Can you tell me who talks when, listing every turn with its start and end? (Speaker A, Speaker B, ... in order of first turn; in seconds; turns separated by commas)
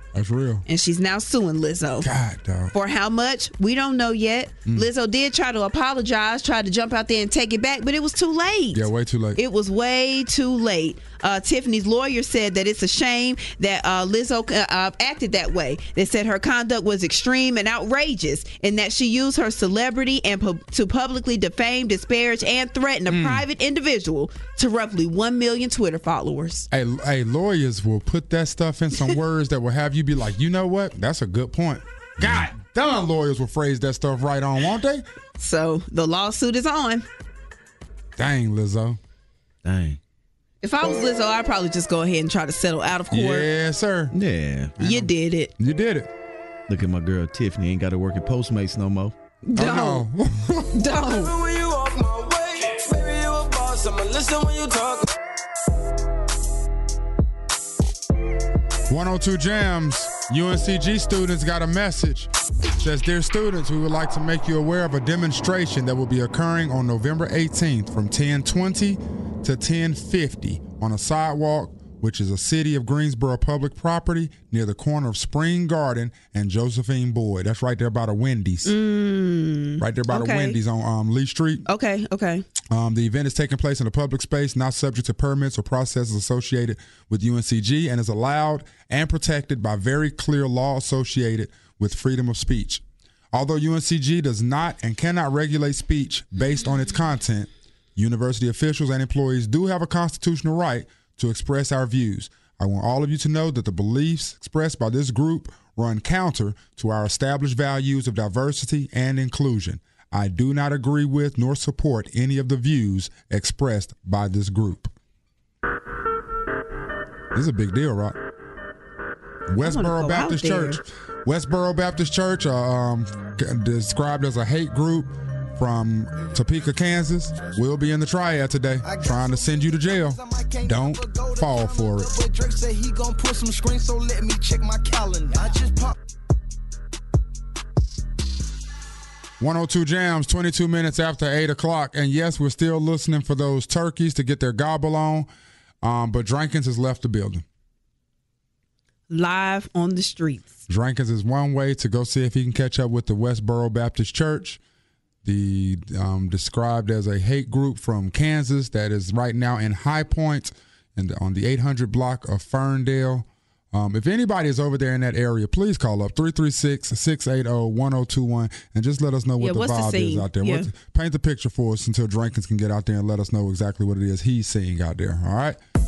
Speaker A: 0.1-0.6, Speaker B: 0.7-2.1, Speaker A: 2.0-2.7, Speaker B: 2.7-26.7, Speaker A: 8.7-9.4, Speaker A: 23.1-23.4, Speaker A: 26.7-35.0, Speaker C: 32.2-32.5, Speaker B: 35.4-37.0, Speaker A: 38.2-39.0, Speaker C: 39.6-40.0, Speaker B: 40.6-43.5, Speaker A: 43.1-44.1, Speaker C: 44.1-44.7, Speaker A: 44.8-46.1, Speaker B: 44.8-45.5, Speaker C: 46.7-49.1, Speaker B: 49.4-50.0, Speaker A: 49.5-50.7, Speaker B: 50.7-51.3, Speaker D: 51.0-55.1, Speaker A: 58.9-78.7, Speaker B: 78.6-80.6, Speaker A: 79.8-81.6, Speaker B: 81.7-82.4, Speaker A: 82.7-114.9, Speaker A: 117.3-118.2, Speaker A: 119.5-132.1, Speaker B: 119.6-120.8, Speaker E: 128.8-129.4, Speaker E: 130.1-135.9, Speaker A: 139.4-145.3, Speaker A: 145.8-147.4, Speaker B: 149.1-150.5, Speaker A: 150.7-154.6, Speaker A: 155.2-175.6, Speaker B: 169.4-170.7